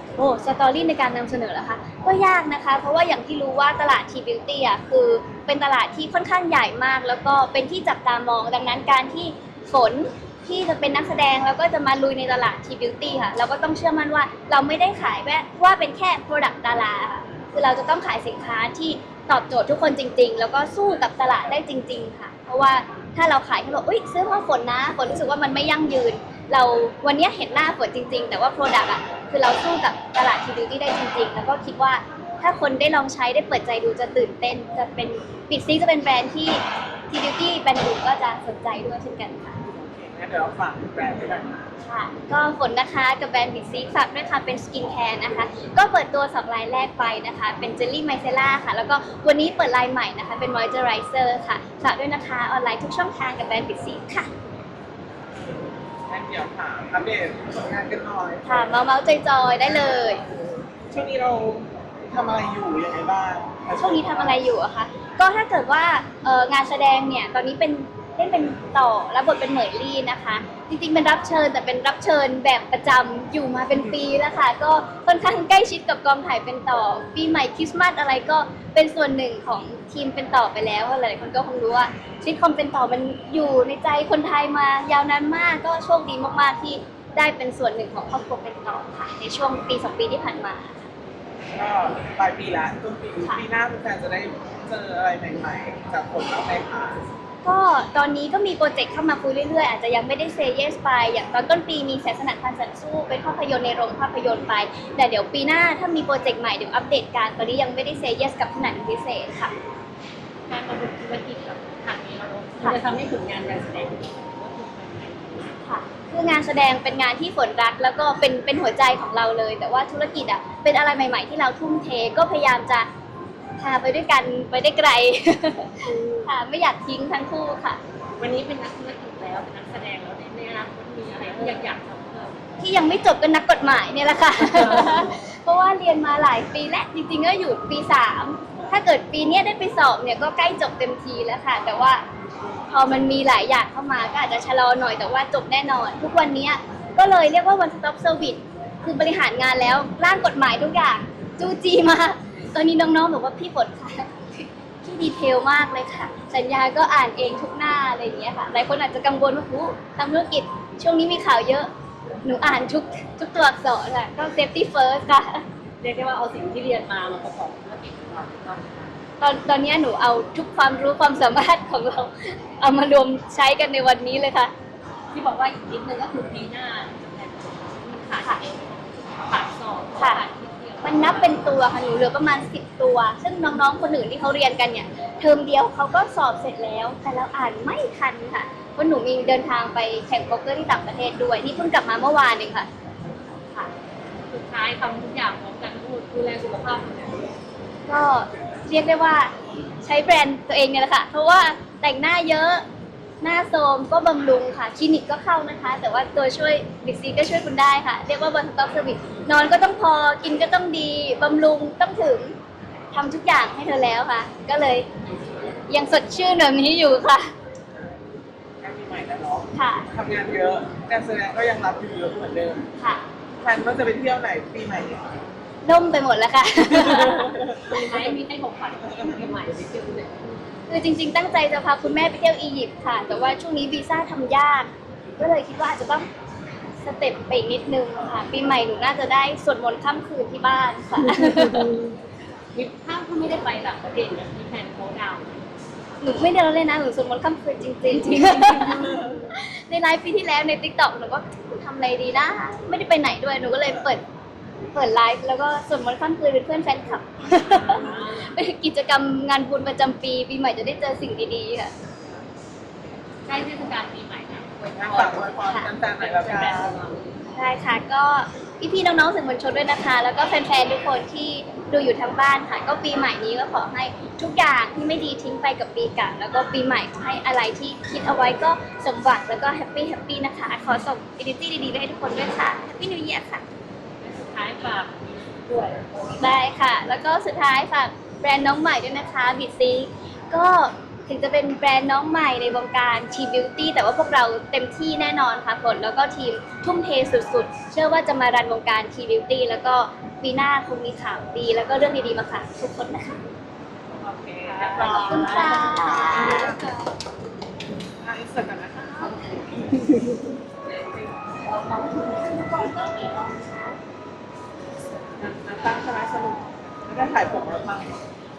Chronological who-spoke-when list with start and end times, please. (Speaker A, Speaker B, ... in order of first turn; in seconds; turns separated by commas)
Speaker A: 0.2-39.6, Speaker B: 39.7-41.7, Speaker A: 41.8-54.3, Speaker B: 55.5-58.6, Speaker A: 58.4-60.2, Speaker B: 60.9-64.4, Speaker A: 63.8-90.9, Speaker B: 91.5-97.0, Speaker A: 97.4-109.5, Speaker C: 110.5-115.5, Speaker A: 115.6-122.9, Speaker A: 123.6-127.8, Speaker C: 125.8-126.3, Speaker C: 128.2-132.4, Speaker A: 132.6-142.0, Speaker C: 134.4-135.0, Speaker A: 142.7-161.7, Speaker A: 162.2-165.4, Speaker C: 165.8-168.9, Speaker A: 169.2-174.5, Speaker C: 175.1-181.4, Speaker A: 180.0-180.2, Speaker A: 180.8-192.7, Speaker C: 194.3-197.3, Speaker A: 197.9-199.3, Speaker A: 199.8-202.6, Speaker A: 203.2-212.3, Speaker A: 212.9-214.9, Speaker A: 215.7-217.3, Speaker B: 218.6-222.7, Speaker A: 219.5-219.9, Speaker A: 222.8-223.0, Speaker B: 223.4-225.2, Speaker A: 225.6-227.3, Speaker B: 226.9-227.6, Speaker C: 227.2-230.5, Speaker A: 230.7-236.1, Speaker A: 236.8-241.7, Speaker C: 241.1-241.9, Speaker C: 242.5-245.5, Speaker A: 246.0-254.0, Speaker C: 248.2-248.9, Speaker A: 254.7-261.7, Speaker C: 257.5-258.3, Speaker C: 263.2-267.2, Speaker B: 264.7-266.8, Speaker A: 265.4-265.7, Speaker A: 267.3-283.4, Speaker C: 284.0-286.2, Speaker A: 286.2-303.2, Speaker B: 303.9-306.6, Speaker C: 304.4-306.7, Speaker A: 304.9-306.7, Speaker B: 308.0-309.4, Speaker C: 310.9-313.3, Speaker B: 315.2-318.0